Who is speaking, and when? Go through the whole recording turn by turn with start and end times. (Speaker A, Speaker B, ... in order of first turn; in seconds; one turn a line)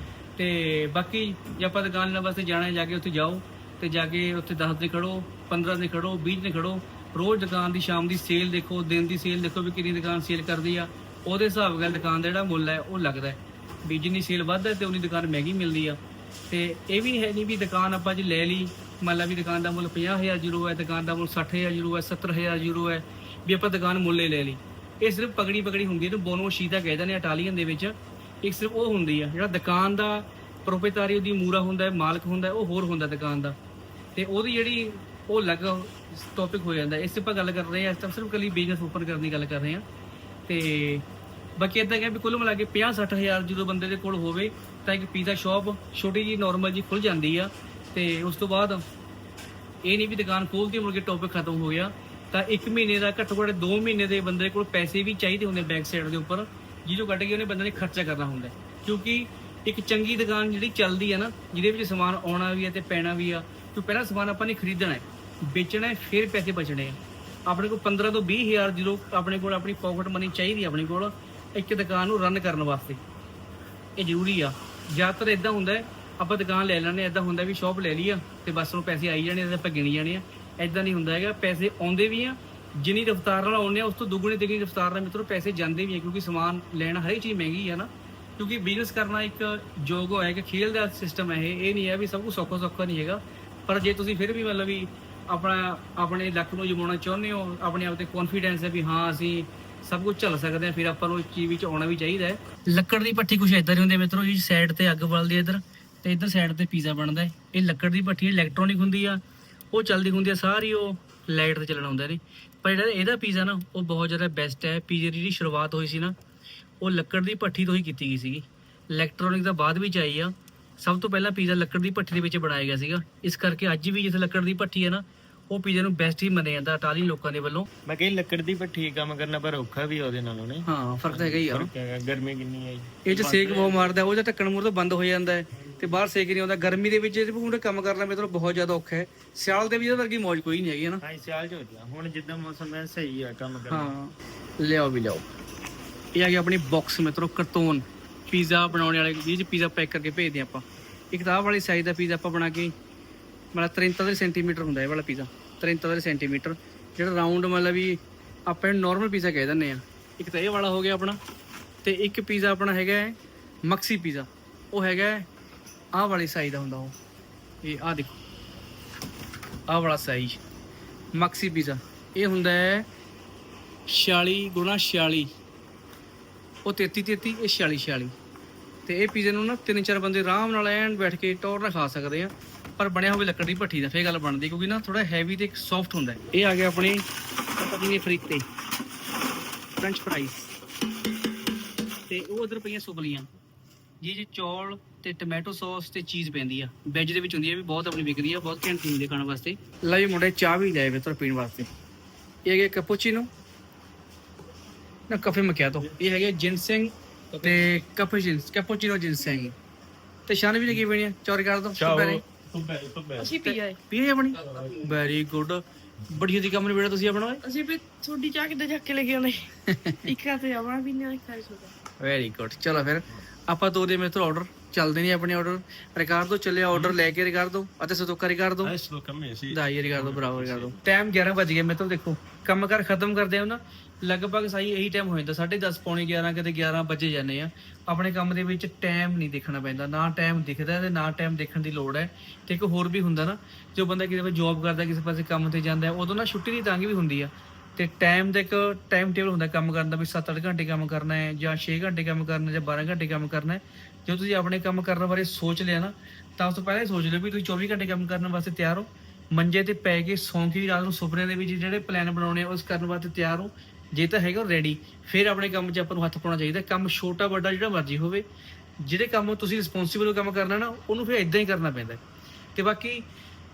Speaker A: 0.4-16.0
Speaker A: 16.5-33.6
Speaker A: 34.1-39.8
Speaker A: 40.5-41.0
Speaker A: 41.6-48.8
Speaker A: 49.9-73.0
Speaker A: 74.0-109.2
Speaker A: 109.7-116.2
Speaker A: 116.8-127.7
Speaker B: 127.9-134.0
Speaker A: 130.7-131.7
Speaker A: 133.1-141.0
Speaker B: 141.0-143.9
Speaker A: 143.7-145.3
Speaker A: 146.2-152.7
Speaker A: 153.5-161.2
Speaker A: 161.8-165.3
Speaker A: 165.9-167.0
Speaker A: 167.6-168.2
Speaker A: 169.7-170.4
Speaker A: 171.1-172.9
Speaker A: 173.9-175.3
Speaker A: 176.7-178.2
Speaker A: 178.9-187.1
Speaker A: 187.6-188.4
Speaker A: 189.8-190.5
Speaker A: 192.1-193.3
Speaker A: 194.0-201.7
Speaker A: 202.5-203.3
Speaker A: 205.1-209.6
Speaker A: 210.3-212.2
Speaker B: 211.8-213.3
Speaker C: 213.2-213.8
Speaker A: 213.4-217.4
Speaker C: 217.4-219.5
Speaker A: 219.7-220.1
Speaker C: 220.1-221.7
Speaker A: 222.0-228.7
Speaker B: 228.6-230.8
Speaker A: 229.5-268.2
Speaker A: 268.8-272.0
Speaker A: 272.6-273.1